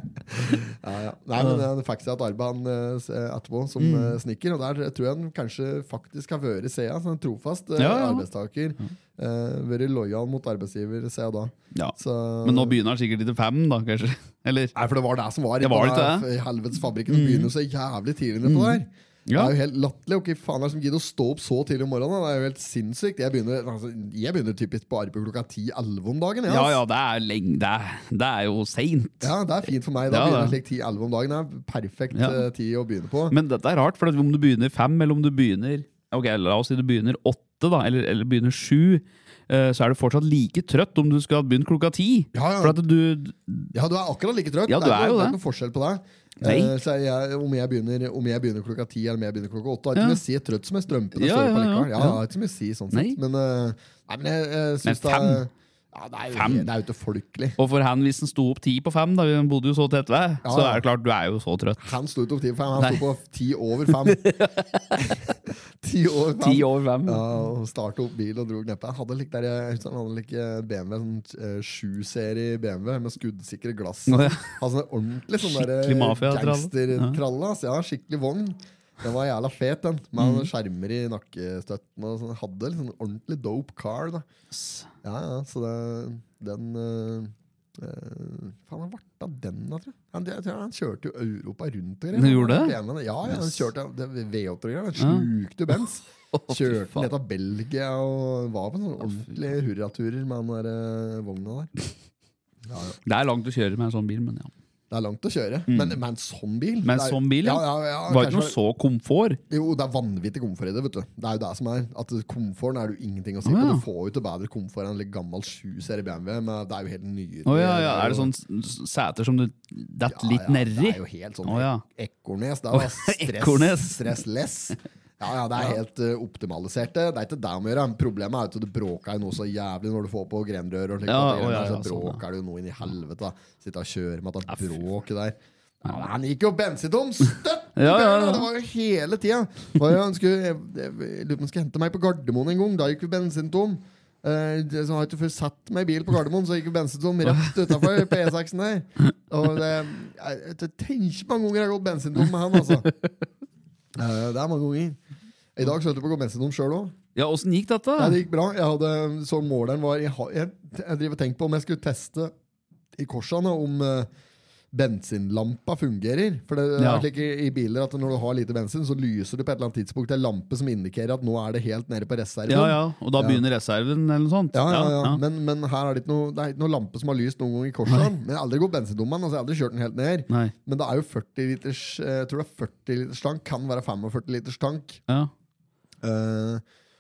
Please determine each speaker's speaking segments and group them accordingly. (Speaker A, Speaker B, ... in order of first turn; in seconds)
Speaker A: 0.3-12.8, 14.7-26.8, 29.2-33.4, 42.3-42.8, 43.7-57.6, 60.4-60.9, 61.8-64.2, 65.0-84.3, 85.0-101.7, 102.7-103.0, 104.9-108.6, 109.5-118.3, 120.1-152.9, 153.9-155.0, 155.6-156.9, 158.0-162.3, 163.0-164.1, 164.7-173.4, 174.5-185.0, 186.0-186.6
Speaker B: 1.4-1.6, 3.8-4.2, 7.8-8.2, 11.7-14.7, 15.6-16.3, 17.1-17.5, 18.4-19.5, 26.5-29.3, 30.1-30.6, 32.1-32.4, 33.3-43.7, 44.7-45.4, 46.4-46.7, 50.0-50.2, 51.2-52.2, 52.9-53.2, 54.9-55.4, 56.3-56.7, 57.6-61.8, 63.9-65.0, 66.4-67.2, 74.1-74.5, 75.4-77.2, 80.2-80.5, 84.5-84.9, 92.1-92.8, 93.3-93.7, 95.0-95.3, 96.3-97.1, 103.0-104.5, 105.7-106.0, 106.8-109.4, 113.5-113.8, 117.5-121.8, 122.7-124.2, 131.1-132.2, 137.8-138.5, 147.3-148.1, 157.2-158.2, 166.8-167.1, 172.5-175.2